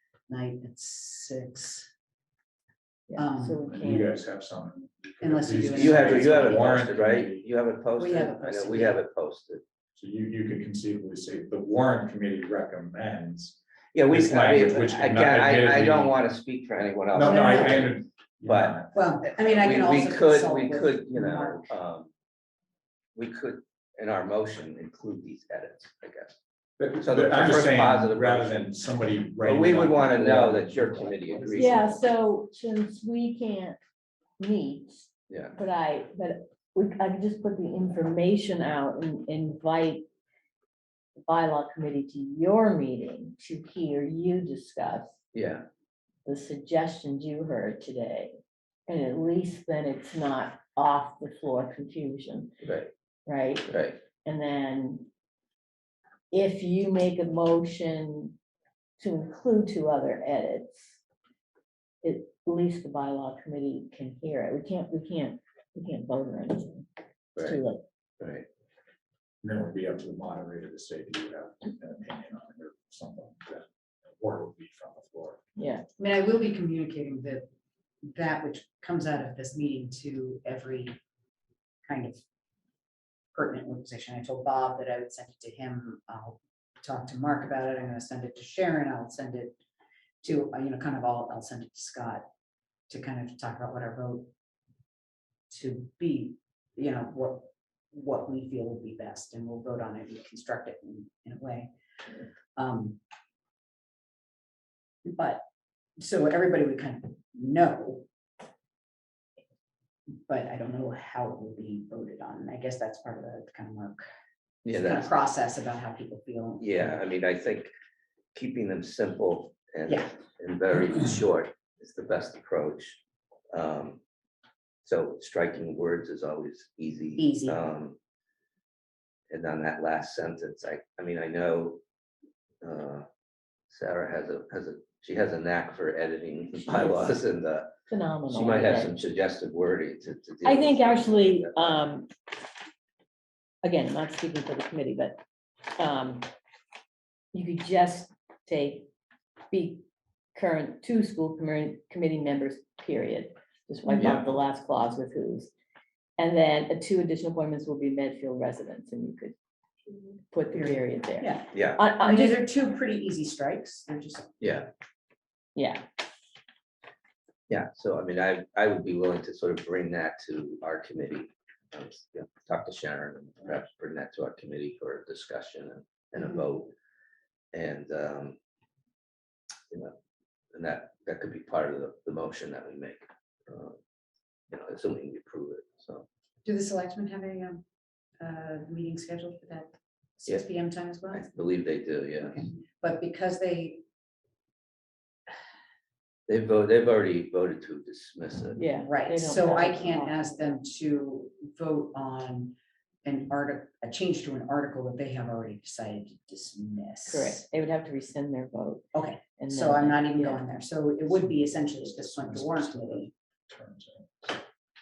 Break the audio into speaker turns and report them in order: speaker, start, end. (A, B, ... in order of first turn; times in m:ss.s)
0:00.3-0:01.9 A
0:03.1-0:04.1 B
0:03.1-0:03.6 A
0:03.7-0:07.4 C
0:05.2-0:06.7 A
0:05.6-0:09.6 D
0:08.0-0:09.0 A
0:10.0-0:16.2 C
0:13.9-0:18.8 D
0:17.1-0:19.4 C
0:17.2-0:17.9 A
0:18.9-0:21.7 A
0:19.4-0:22.1 D
0:23.1-0:26.4 D
0:26.8-0:32.0 C
0:27.0-0:28.7 D
0:29.4-0:31.8 D
0:31.6-0:33.8 B
0:34.4-0:40.0 B
0:41.3-0:45.2 B
0:45.3-0:45.6 D
0:46.2-0:52.5 B
0:52.6-0:52.9 D
0:53.2-0:55.1 B
0:53.7-0:54.0 D
0:56.3-0:58.4 B
0:59.0-1:01.0 B
1:02.0-1:07.8 B
1:08.2-1:08.4 D
1:09.4-1:15.4 C
1:15.6-1:15.8 B
1:16.0-1:17.5 A
1:18.0-1:21.0 A
1:21.8-1:22.2 A
1:23.3-1:29.6 A
1:30.2-1:32.2 A
1:32.9-1:34.3 A
1:35.5-1:41.7 A
1:42.6-1:43.0 A
1:45.1-1:45.4 A
1:46.0-1:48.0 A
1:50.3-1:54.0 A
1:54.6-1:55.1 D
1:54.7-1:57.0 A
1:56.6-1:57.7 D
1:58.3-2:03.0 D
1:59.9-2:00.1 A
2:03.5-2:04.0 D
2:04.8-2:08.0 D
2:07.2-2:07.6 A
2:09.3-2:11.8 D
2:12.6-2:13.0 D
2:13.7-2:17.7 D
2:16.5-2:17.2 B
2:17.9-2:19.0 B
2:18.3-2:21.9 D
2:20.4-2:22.1 B
2:23.6-2:25.2 B
2:25.8-2:26.3 B
2:27.3-2:28.9 B
2:29.5-2:35.5 B
2:33.9-2:34.2 D
2:36.2-2:39.3 B
2:40.0-2:42.4 B
2:40.5-2:44.3 A
2:41.5-2:41.8 D
2:44.4-2:44.7 D
2:45.6-2:45.8 B
2:47.5-2:56.7 D
2:57.5-2:58.4 D
3:00.5-3:03.8 D
3:04.5-3:06.1 D
3:06.4-3:07.6 A
3:08.2-3:11.2 A
3:11.1-3:12.4 D
3:12.2-3:13.8 A
3:16.3-3:18.6 D
3:18.6-3:20.4 B
3:18.8-3:27.4 A
3:27.1-3:28.8 B
3:28.9-3:33.1 A
3:29.4-3:30.4 B
3:31.4-3:34.4 C